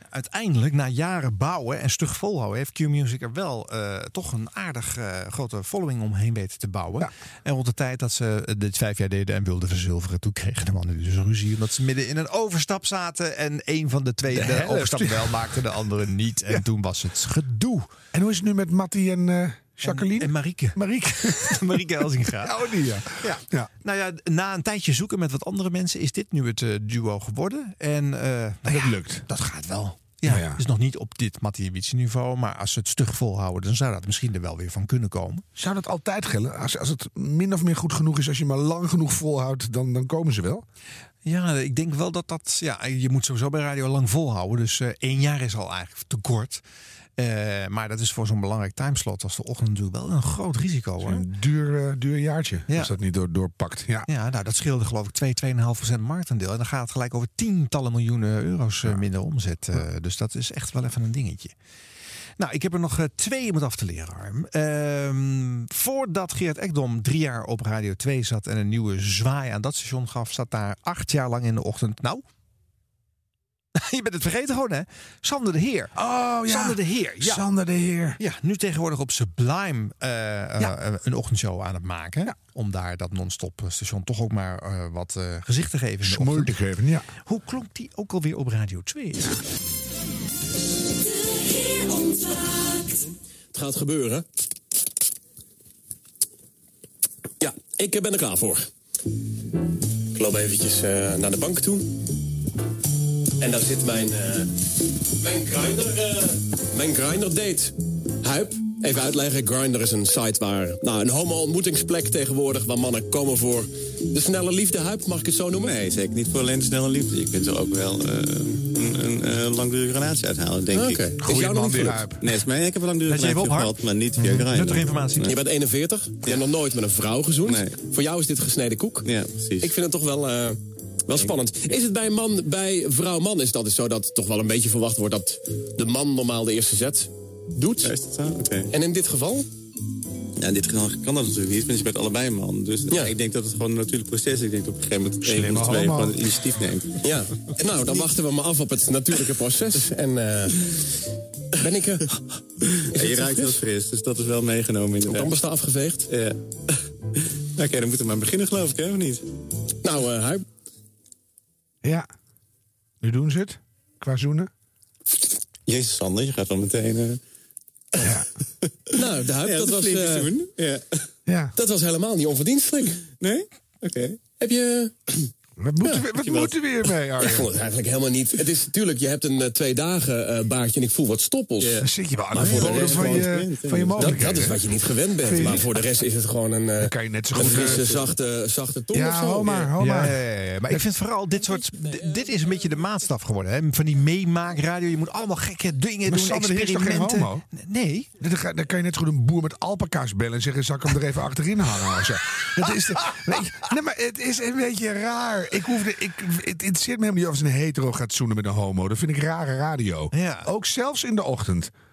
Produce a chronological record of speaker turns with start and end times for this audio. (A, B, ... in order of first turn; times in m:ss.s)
0:00.1-0:17.9 A
0:14.3-0:15.4 B
0:18.1-0:21.8 B
0:19.8-0:22.6 A
0:22.4-0:23.7 B
0:23.2-0:35.4 A
0:28.7-0:29.2 B
0:30.2-0:30.6 B
0:35.6-0:40.6 B
0:41.2-0:46.6 A
0:47.2-0:51.3 A
0:51.0-0:54.1 B
0:54.1-1:01.5 A
1:02.4-1:12.2 A
1:13.8-1:15.9 A
1:16.0-1:18.2 B
1:16.5-1:17.4 A
1:18.2-1:26.6 A
1:26.0-1:27.1 B
1:27.2-1:29.4 A
1:33.5-1:34.2 C
1:37.4-1:38.6 C
1:40.2-1:41.9 C
1:43.4-1:44.5 C
1:45.2-1:55.7 C
1:55.6-2:01.2 D
2:00.7-2:02.1 C
2:01.2-2:02.2 B
2:02.2-2:05.3 D
2:03.1-2:05.3 A
2:05.3-2:09.1 C
2:07.4-2:07.8 D
2:09.0-2:09.7 D
2:09.6-2:17.9 C
2:17.8-2:18.7 D
2:18.7-2:19.5 C
2:20.4-2:27.0 D
2:25.2-2:26.2 B
2:27.0-2:30.6 C
2:31.6-2:32.1 C
2:32.8-2:35.3 D
2:33.0-2:33.6 C
2:35.1-2:36.1 C
2:36.1-2:36.4 D
2:37.6-2:39.2 D
2:39.8-2:40.4 C
2:43.0-2:44.5 B
2:45.7-2:47.2 D
2:48.0-2:48.3 B
2:49.0-2:50.3 C
2:49.3-2:50.9 D
2:51.3-2:51.5 B
2:51.6-2:53.0 C
2:53.1-2:54.2 D
2:54.4-2:54.9 C
2:55.6-2:57.5 B
2:56.1-2:56.5 D
2:57.2-3:03.2 C
3:01.8-3:04.6 B
3:02.4-3:04.2 D
3:04.0-3:09.7 C
3:05.2-3:05.7 B
3:06.8-3:07.9 B
3:07.4-3:07.7 D
3:08.9-3:10.9 B
3:09.8-3:18.1 A
3:16.0-3:17.4 B
3:18.2-3:31.7 B
3:30.1-3:30.5 A